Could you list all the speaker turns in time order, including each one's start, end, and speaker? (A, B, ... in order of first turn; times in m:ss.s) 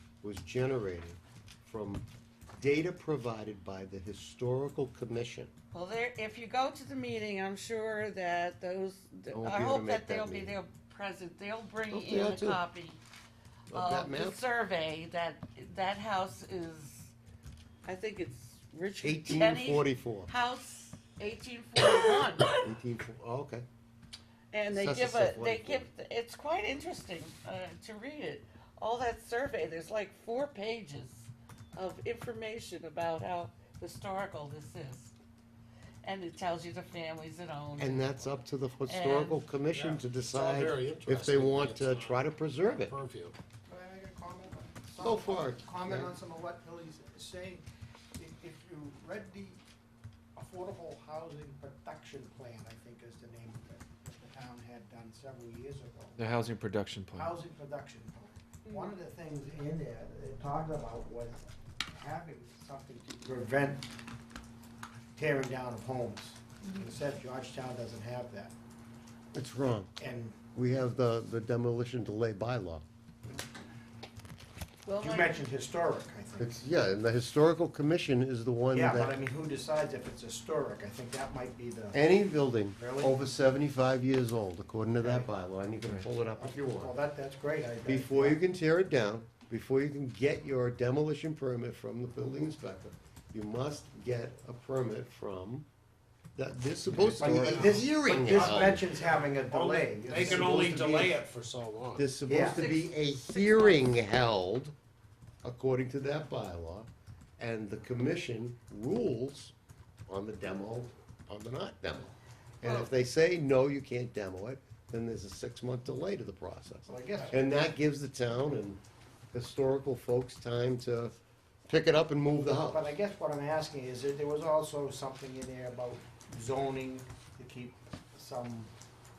0:00.2-0:05.5 A
0:05.7-0:13.0 B
0:09.3-0:10.6 A
0:11.9-0:12.6 A
0:13.7-0:14.4 A
0:13.7-0:17.1 B
0:17.8-0:22.6 B
0:19.0-0:20.3 A
0:22.5-0:23.7 A
0:24.5-0:35.1 B
0:24.7-0:25.9 A
0:36.0-0:39.4 B
0:37.8-0:43.0 A
0:39.7-0:42.2 C
0:42.8-0:43.4 C
0:43.7-0:47.6 D
0:45.0-0:46.1 A
0:48.2-0:49.6 D
0:50.4-0:56.2 D
0:56.2-0:57.4 E
0:57.1-1:03.9 D
1:05.2-1:08.5 D
1:09.3-1:10.0 A
1:10.0-1:10.4 D
1:10.5-1:12.8 A
1:14.8-1:15.5 B
1:15.0-1:16.6 D
1:16.4-1:19.2 A
1:18.7-1:22.0 D
1:21.9-1:27.0 A
1:22.8-1:23.2 D
1:25.0-1:25.3 D
1:26.4-1:28.4 D
1:27.9-1:35.7 A
1:36.4-1:38.9 A
1:36.9-1:37.7 E
1:37.2-1:41.2 D
1:38.1-1:38.8 C
1:39.4-1:42.1 C
1:40.2-1:40.8 A
1:42.0-1:44.8 A
1:42.3-1:42.6 D
1:42.4-1:43.9 B
1:45.4-1:49.5 A
1:50.1-1:58.8 A
1:52.6-1:52.9 B
1:56.9-1:57.4 D
1:59.3-2:02.8 A
2:02.5-2:08.7 D